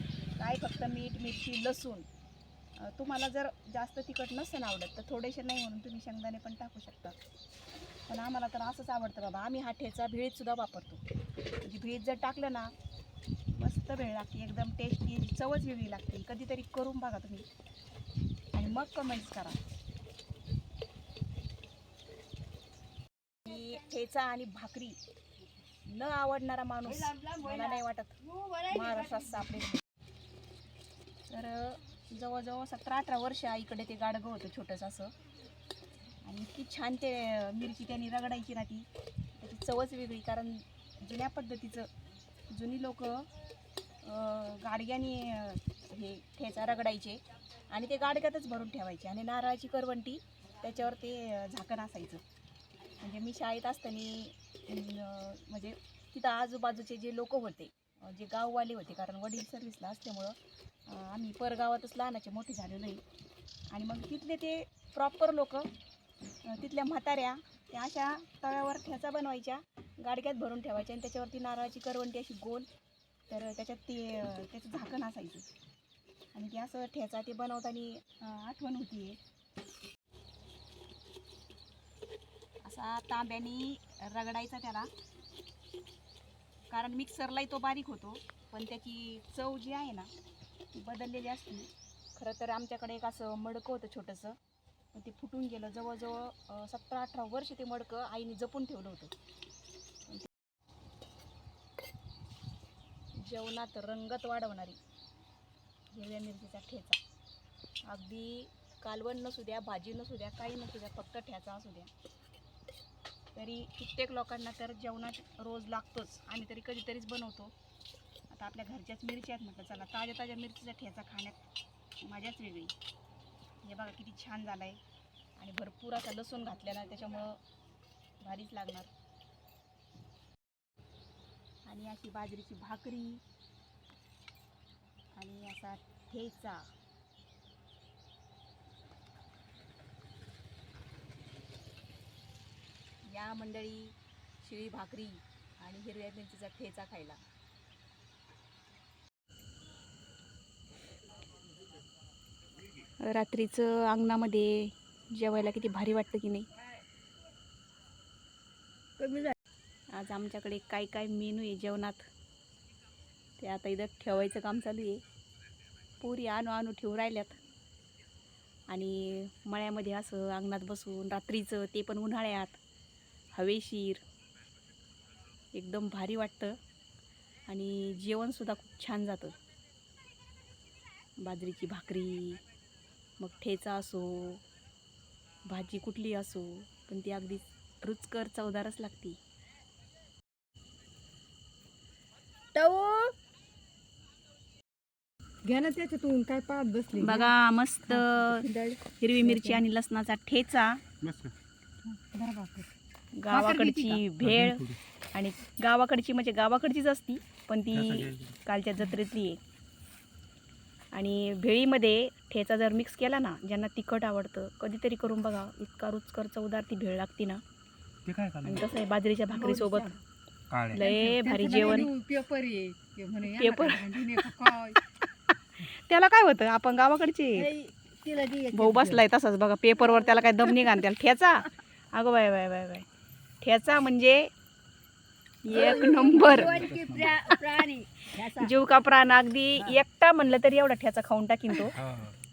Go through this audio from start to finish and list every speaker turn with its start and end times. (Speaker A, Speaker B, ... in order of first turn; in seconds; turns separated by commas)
Speaker A: 0.4-2.1, Speaker A: 2.8-7.2, Speaker A: 8.1-11.0, Speaker A: 11.6-12.7, Speaker A: 13.6-17.5, Speaker A: 18.5-19.6, Speaker A: 23.4-25.0, Speaker A: 25.8-29.8, Speaker B: 27.1-27.7, Speaker B: 28.3-29.1, Speaker A: 31.3-35.1, Speaker A: 36.2-41.9, Speaker A: 42.5-43.3, Speaker A: 44.0-52.2, Speaker A: 53.0-63.0, Speaker A: 63.7-65.7, Speaker A: 66.5-72.7, Speaker A: 73.3-75.5, Speaker A: 76.3-79.2, Speaker A: 82.6-84.9, Speaker A: 86.7-90.1, Speaker A: 90.7-94.4, Speaker A: 94.9-99.1, Speaker A: 103.2-104.8, Speaker A: 105.9-107.0, Speaker A: 107.9-111.9, Speaker A: 113.3-117.5, Speaker A: 118.3-121.4, Speaker A: 122.0-122.8, Speaker A: 123.6-124.8, Speaker A: 125.4-127.4, Speaker A: 128.2-128.9, Speaker A: 131.7-133.2, Speaker A: 135.1-136.7, Speaker A: 143.1-147.2, Speaker A: 153.0-156.5, Speaker B: 159.0-159.3, Speaker A: 159.9-162.1, Speaker A: 163.4-165.0, Speaker A: 166.0-167.4, Speaker A: 168.7-172.6, Speaker A: 173.3-174.0, Speaker A: 175.5-176.6, Speaker A: 177.5-179.4, Speaker A: 181.2-182.4, Speaker A: 183.2-184.4, Speaker A: 185.5-189.2, Speaker B: 192.6-193.2, Speaker B: 195.4-197.3, Speaker A: 197.0-198.5, Speaker B: 197.9-199.6, Speaker A: 199.0-200.8, Speaker C: 201.0-201.3, Speaker B: 201.8-202.7, Speaker A: 203.2-209.4, Speaker B: 203.3-204.0, Speaker C: 204.2-204.8, Speaker C: 207.7-208.4, Speaker A: 210.9-217.4, Speaker C: 218.1-218.7, Speaker A: 218.4-220.0, Speaker B: 219.3-220.0, Speaker C: 220.5-220.8, Speaker A: 220.7-221.9, Speaker B: 220.8-224.8, Speaker A: 223.2-224.3, Speaker A: 225.3-227.5, Speaker B: 227.4-229.0, Speaker A: 228.5-232.9, Speaker A: 233.4-234.3, Speaker A: 235.4-236.7, Speaker B: 235.5-238.5, Speaker C: 236.2-237.2, Speaker A: 237.3-237.5, Speaker A: 238.2-241.8, Speaker C: 241.8-242.2